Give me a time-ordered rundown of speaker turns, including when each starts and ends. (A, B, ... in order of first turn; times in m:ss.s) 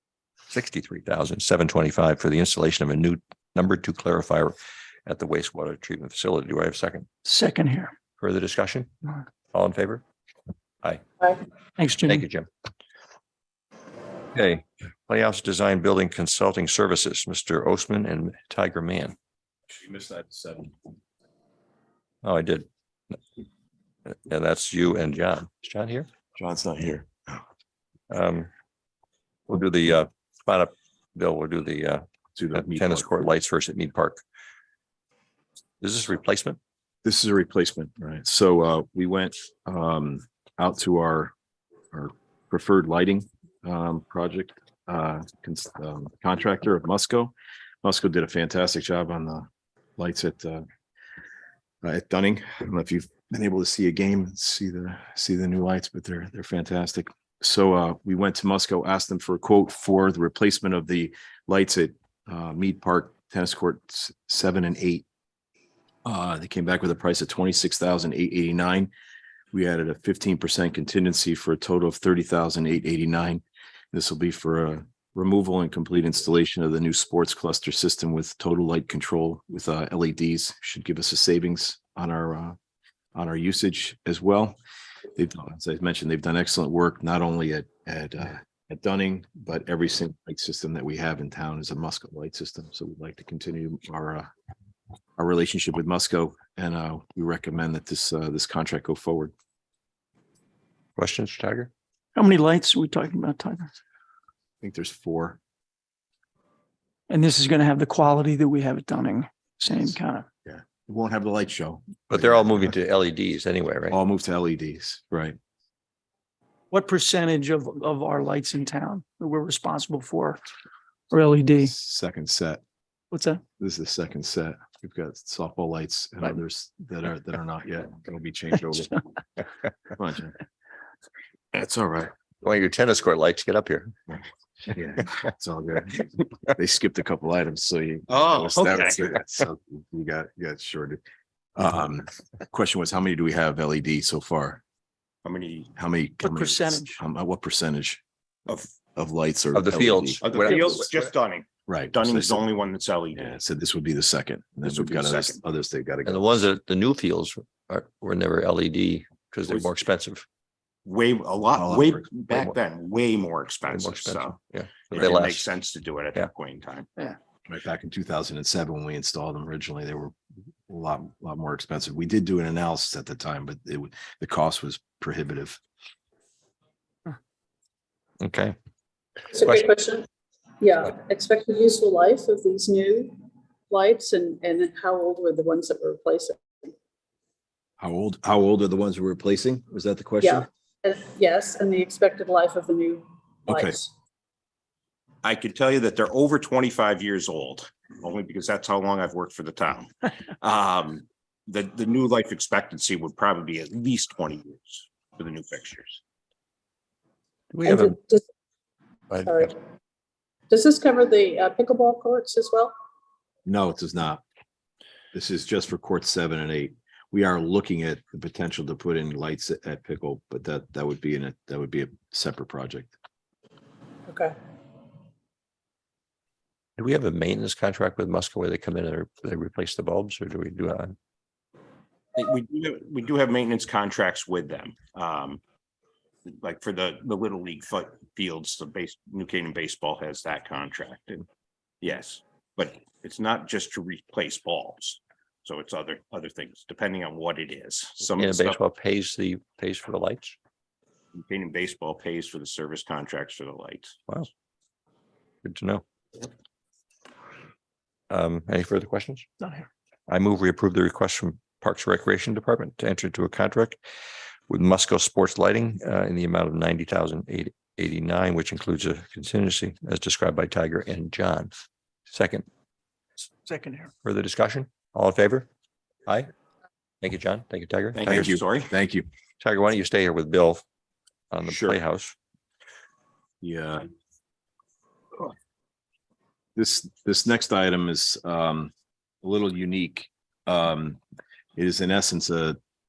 0:00.5-0:07.1 A
0:07.2-0:07.9 B
0:08.2-0:08.9 A
0:09.5-0:10.0 A
0:11.8-0:12.2 B
0:12.0-0:12.5 A
0:14.3-0:19.2 A
0:19.7-0:20.7 C
0:22.2-0:23.2 A
0:24.1-0:26.1 A
0:26.4-0:27.4 C
0:28.1-0:28.5 A
0:29.5-0:32.0 A
0:32.3-0:33.2 C
0:32.5-0:34.2 A
0:35.8-0:36.6 A
0:37.0-0:41.3 C
0:41.9-0:49.5 C
0:50.0-0:50.6 C
0:51.8-1:05.0 C
1:06.0-1:08.9 C
1:09.5-1:22.6 C
1:23.1-1:24.6 C
1:25.2-1:34.3 C
1:35.2-1:39.3 C
1:41.0-1:41.7 A
1:42.2-1:43.7 B
1:44.6-1:45.4 C
1:47.1-1:50.2 B
1:50.4-1:52.7 C
1:52.1-1:54.0 A
1:53.9-1:55.4 C
1:56.7-2:00.4 B
2:01.1-2:01.7 B
2:01.6-2:02.6 C
2:03.1-2:03.4 B
2:03.6-2:08.9 C
2:09.9-2:10.4 C
2:11.5-2:12.1 C
2:12.4-2:13.9 A
2:14.7-2:21.0 C
2:18.1-2:19.1 D
2:21.5-2:24.6 C
2:25.2-2:25.7 D
2:25.8-2:28.0 C
2:26.2-2:27.0 B
2:28.9-2:30.2 C
2:29.5-2:30.6 A
2:30.2-2:33.4 D
2:31.7-2:32.4 C
2:33.1-2:36.4 C
2:34.6-2:35.4 D
2:36.0-2:40.2 A
2:39.5-2:39.8 D
2:40.8-2:44.4 D
2:41.6-2:42.5 C
2:43.7-2:45.5 A
2:44.9-2:46.9 D
2:47.5-2:50.1 C
2:50.7-2:55.6 C
2:58.2-2:58.6 A
2:59.3-3:00.0 E
3:00.6-3:03.1 E
3:03.7-3:06.7 E
3:07.8-3:10.5 C
3:10.2-3:13.9 E
3:13.5-3:13.8 C
3:15.2-3:26.0 D
3:27.5-3:28.0 A
3:27.6-3:28.2 E
3:29.1-3:29.5 A
3:29.2-3:29.5 E
3:30.5-3:32.7 E
3:33.4-3:34.2 C
3:35.1-3:42.9 C
3:44.1-3:44.3 E
3:46.8-3:50.9 A
3:52.1-3:55.4 D
3:56.2-4:01.3 D
4:01.8-4:08.6 D
4:08.2-4:10.4 A
4:11.1-4:14.0 D
4:15.4-4:15.8 A
4:18.1-4:19.2 A
4:20.1-4:23.8 A
4:24.5-4:31.5 A
4:32.1-4:32.4 A
4:33.4-4:33.9 B
4:34.0-4:35.5 A
4:37.0-4:38.4 A
4:37.9-4:38.7 D
4:38.0-4:39.1 C
4:39.4-4:40.6 A
4:41.3-4:42.2 A
4:41.5-4:41.8 D
4:43.4-4:43.9 C
4:46.6-4:51.0 C
4:51.6-4:52.6 C